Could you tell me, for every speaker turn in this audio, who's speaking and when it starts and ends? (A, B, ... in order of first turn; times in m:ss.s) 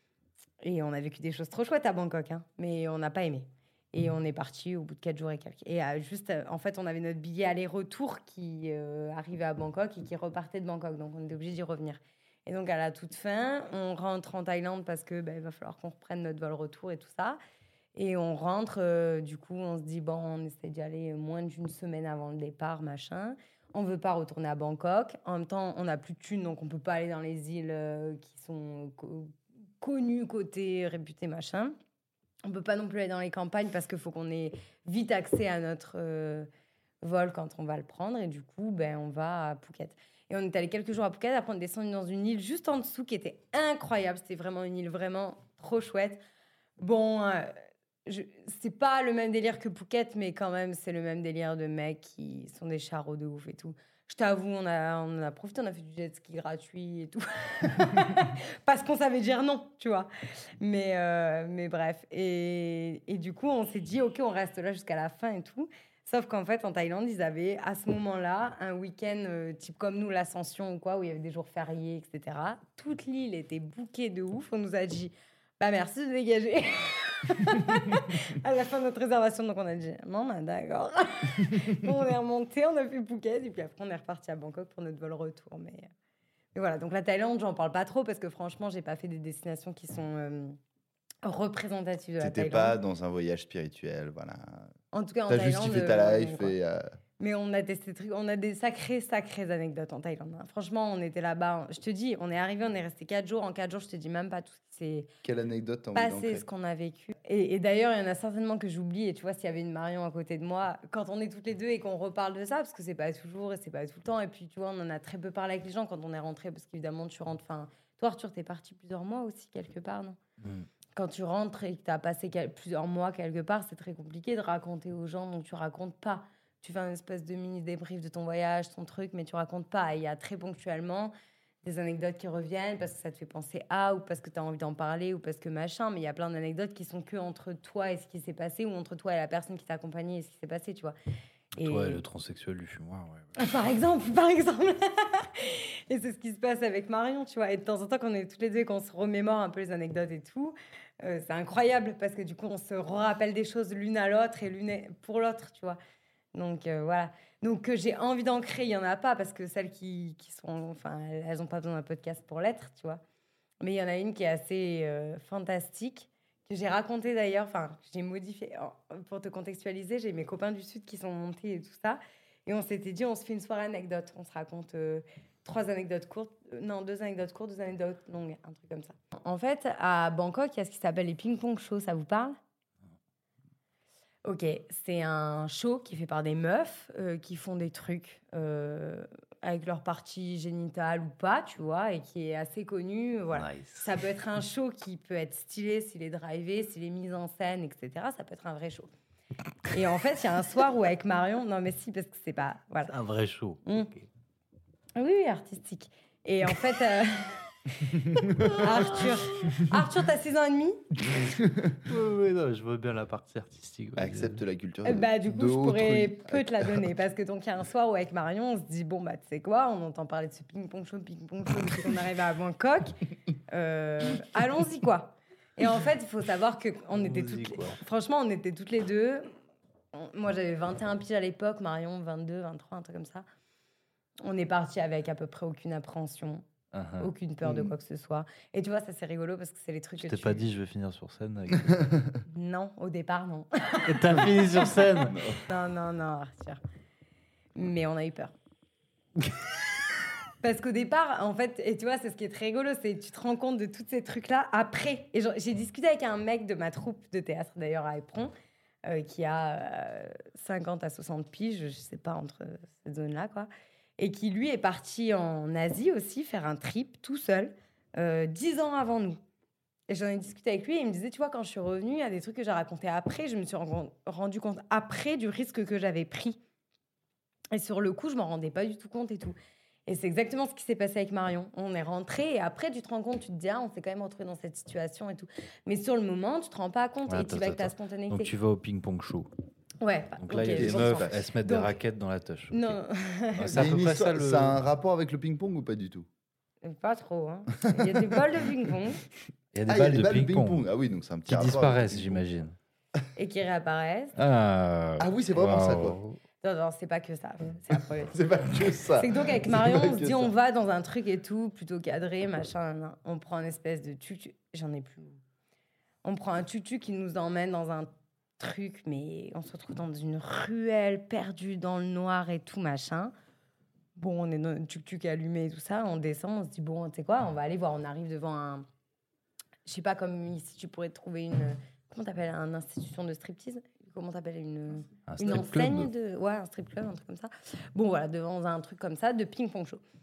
0:00.6-0:17.4 A
0:17.9-0:31.7 A
0:32.4-0:36.5 A
0:37.0-0:46.2 A
0:46.8-0:47.5 A
0:48.0-1:25.9 A
1:26.5-1:30.6 A
1:31.2-1:32.8 A
1:32.2-1:34.7 B
1:34.9-1:36.6 A
1:35.3-1:36.9 B
1:37.2-1:45.1 A
1:45.2-1:46.4 B
1:45.9-2:00.2 A
2:01.0-2:11.1 A
2:11.6-2:20.9 A
2:21.6-2:22.0 A
2:21.6-2:23.3 C
2:23.4-2:35.8 A
2:36.3-2:43.0 A
2:43.6-3:02.4 A
3:04.2-3:18.9 A
3:13.3-3:13.9 C
3:19.7-3:22.9 A
3:22.8-3:24.0 C
3:23.6-3:23.9 A
3:25.0-3:30.8 A
3:28.1-3:28.6 B
3:28.4-3:29.6 C
3:31.1-3:31.8 B
3:31.8-3:34.4 C
3:34.0-3:36.8 B
3:34.8-3:42.9 A
3:43.5-3:49.3 A
3:46.9-3:47.8 C
3:49.9-3:53.2 A
3:54.2-3:56.4 A
3:56.7-3:57.1 C
3:57.0-4:00.4 A
3:57.4-3:57.7 B
4:00.0-4:01.8 C
4:02.2-4:06.6 A
4:03.8-4:05.2 C
4:05.1-4:05.4 B
4:07.6-4:08.3 A
4:10.4-4:18.3 A
4:18.8-4:29.2 A
4:29.9-4:36.4 A
4:37.5-4:39.4 A
4:39.9-4:48.3 A
4:47.1-4:49.3 C
4:49.8-4:51.7 A
4:50.2-4:52.8 C
4:50.4-4:51.2 B
4:52.5-4:53.7 A
4:53.4-4:54.6 C
4:53.5-4:56.1 B
4:56.6-4:59.0 A
4:57.7-4:58.4 B
4:59.5-5:00.6 C
4:59.7-5:02.2 B
5:01.3-5:02.5 C
5:03.2-5:04.2 A
5:04.2-5:06.2 C
5:05.0-5:06.0 B
5:06.4-5:08.2 A
5:08.1-5:10.3 B
5:08.9-5:15.2 A
5:16.0-5:23.1 A
5:24.0-5:28.6 A
5:29.6-5:39.8 A
5:35.1-5:35.9 C